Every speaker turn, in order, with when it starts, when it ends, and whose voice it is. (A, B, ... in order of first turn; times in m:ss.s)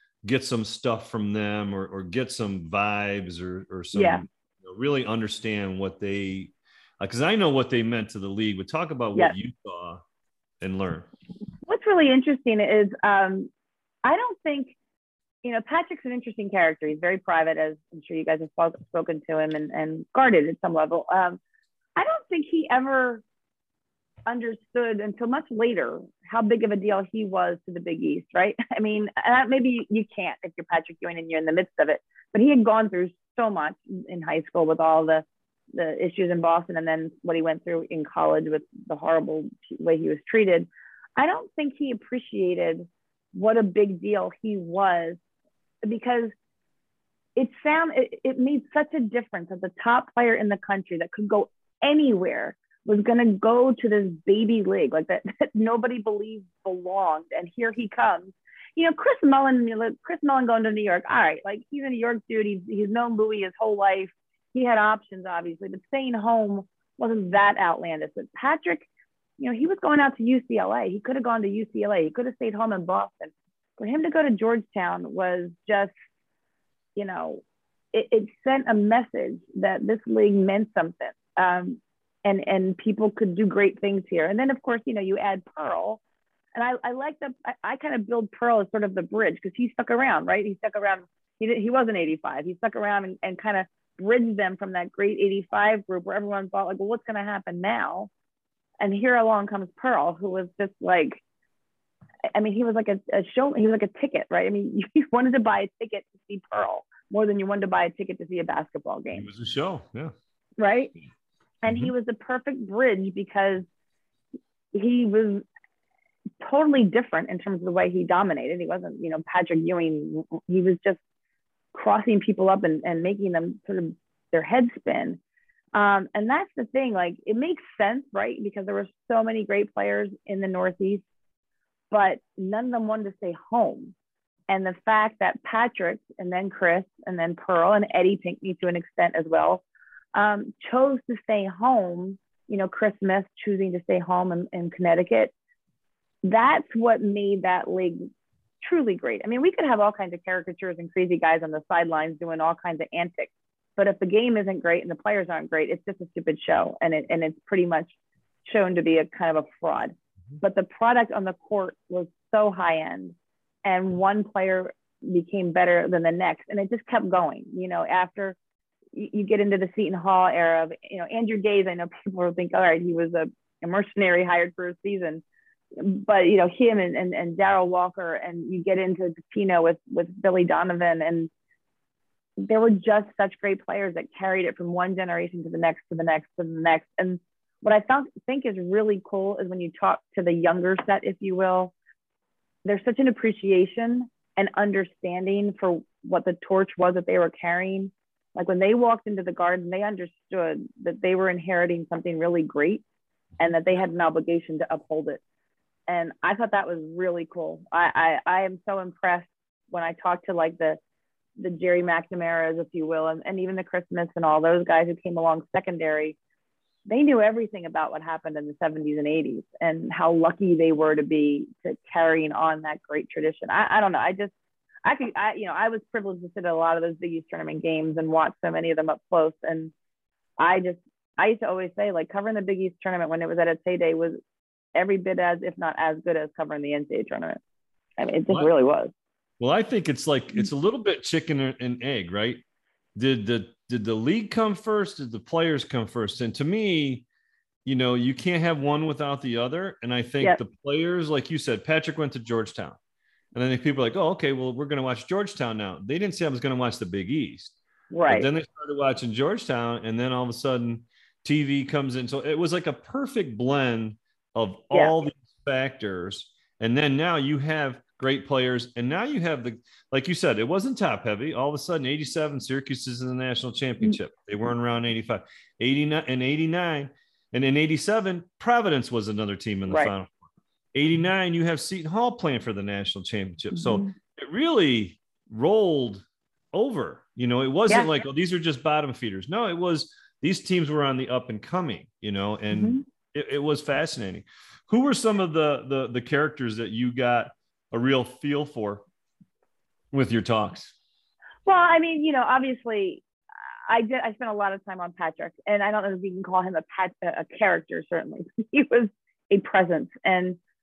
0:00.2-0:10.0 A
0:03.9-0:04.2 B
0:10.6-0:11.1 A
0:11.6-0:13.5 B
0:14.0-0:14.8 B
0:15.4-0:21.4 B
0:22.0-0:23.2 B
0:24.2-0:45.2 B
0:45.8-0:46.3 B
0:47.4-1:08.9 B
1:09.4-1:15.9 B
1:17.0-1:26.0 B
1:26.5-1:38.1 B
1:38.8-1:41.2 B
1:42.3-1:49.3 B
1:49.1-1:50.1 A
1:50.6-1:50.9 B
1:51.6-1:53.6 B
1:51.7-1:51.9 A
1:54.7-1:55.4 B
1:56.4-2:01.0 B
2:01.7-2:05.2 B
2:05.7-2:11.0 B
2:11.9-2:13.9 B
2:14.5-2:19.6 B
2:20.1-2:25.3 B
2:26.2-2:28.0 B
2:28.6-2:37.9 B
2:38.4-2:48.4 B
2:48.9-2:55.2 B
2:55.8-3:01.3 B
3:02.4-3:11.7 B
3:12.6-3:22.8 B
3:23.4-3:25.2 B
3:25.9-3:30.8 B
3:31.4-3:36.2 B
3:36.8-3:44.3 B
3:44.8-3:49.7 B
3:50.4-3:54.2 B
3:54.7-3:57.4 B
3:58.0-3:58.9 B
3:59.4-4:02.4 A
4:03.0-4:07.0 A
4:07.6-4:12.8 A
4:13.3-4:17.5 A
4:17.9-4:18.3 B
4:18.1-4:40.2 A
4:39.7-4:39.9 B
4:40.7-4:58.8 A
4:43.5-4:43.9 B
4:52.5-4:52.8 B
4:59.9-5:00.7 A
5:01.4-5:03.0 B
5:03.7-5:10.4 B